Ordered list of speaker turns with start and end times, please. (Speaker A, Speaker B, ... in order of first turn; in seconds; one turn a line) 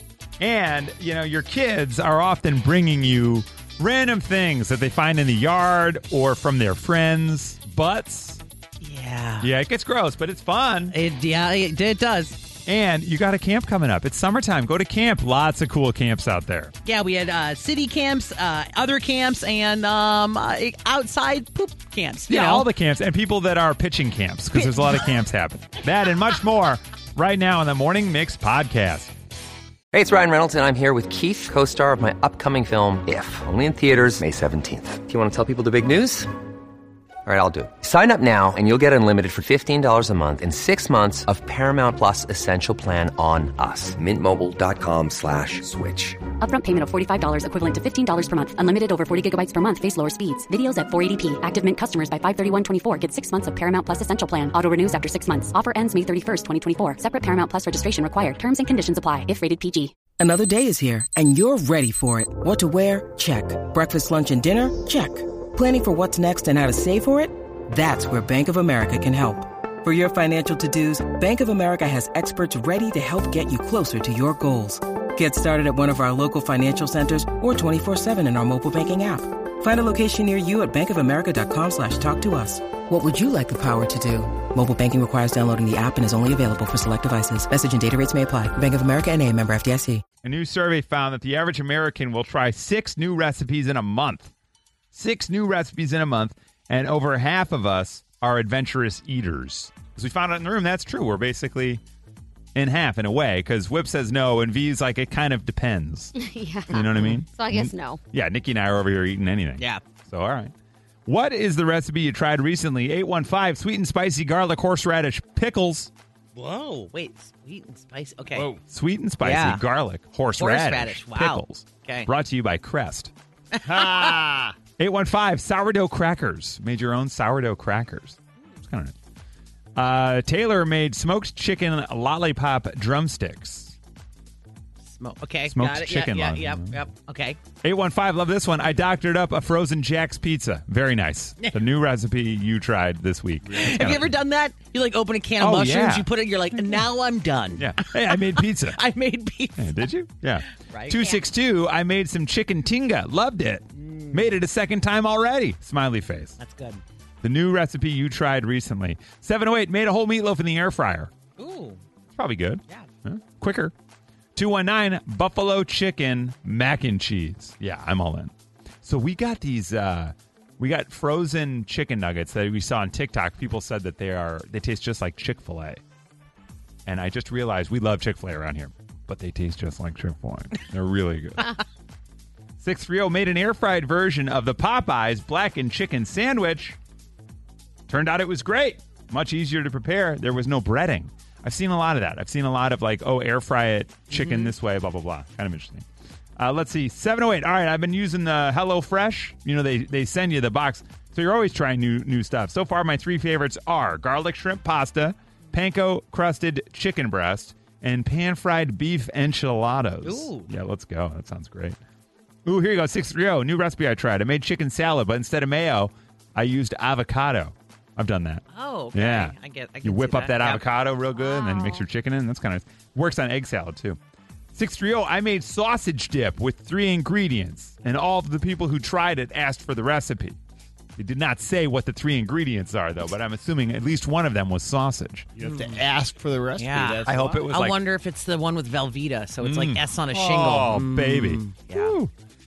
Speaker A: 0.4-8.4
Speaker B: 8.8-9.5
Speaker A: 9.4-10.9
Speaker B: 10.9-12.4
Speaker A: 12.7-16.7
Speaker B: 16.8-22.7
Speaker A: 22.3-29.1
Speaker B: 24.5-25.0
Speaker C: 29.9-36.3
Speaker C: 37.2-46.2
Speaker D: 46.4-59.9
Speaker E: 60.2-90.0
Speaker A: 90.2-94.3
Speaker A: 94.9-101.8
Speaker A: 102.5-106.1
Speaker F: 106.2-108.0
Speaker A: 106.7-110.5
Speaker A: 111.1-115.9
Speaker B: 116.3-118.5
Speaker G: 118.3-118.6
Speaker A: 118.7-123.1
Speaker B: 119.2-119.6
Speaker B: 120.4-122.1
Speaker B: 123.5-124.2
Speaker G: 123.6-124.5
Speaker A: 124.8-128.9
Speaker A: 129.8-133.8
Speaker B: 134.9-137.4
Speaker A: 135.5-136.8
Speaker A: 137.6-144.1
Speaker G: 143.4-144.0
Speaker B: 143.5-149.9
Speaker A: 145.4-146.1
Speaker A: 147.6-148.8
Speaker A: 149.6-156.3
Speaker B: 150.7-151.1
Speaker B: 153.8-154.3
Speaker B: 156.4-156.8
Speaker A: 157.2-161.1
Speaker B: 161.4-161.8
Speaker A: 162.2-163.7
Speaker A: 164.3-175.8
Speaker A: 176.8-181.5
Speaker A: 182.6-186.8
Speaker A: 187.9-195.8
Speaker B: 194.1-194.5
Speaker A: 196.4-211.8
Speaker B: 210.0-210.5
Speaker A: 212.4-224.0
Speaker B: 218.5-220.6
Speaker F: 221.2-221.8
Speaker A: 224.5-230.4
Speaker A: 231.0-235.3
Speaker G: 235.3-237.4
Speaker B: 235.4-235.8
Speaker B: 236.6-241.9
Speaker A: 237.1-237.8
Speaker A: 239.4-242.1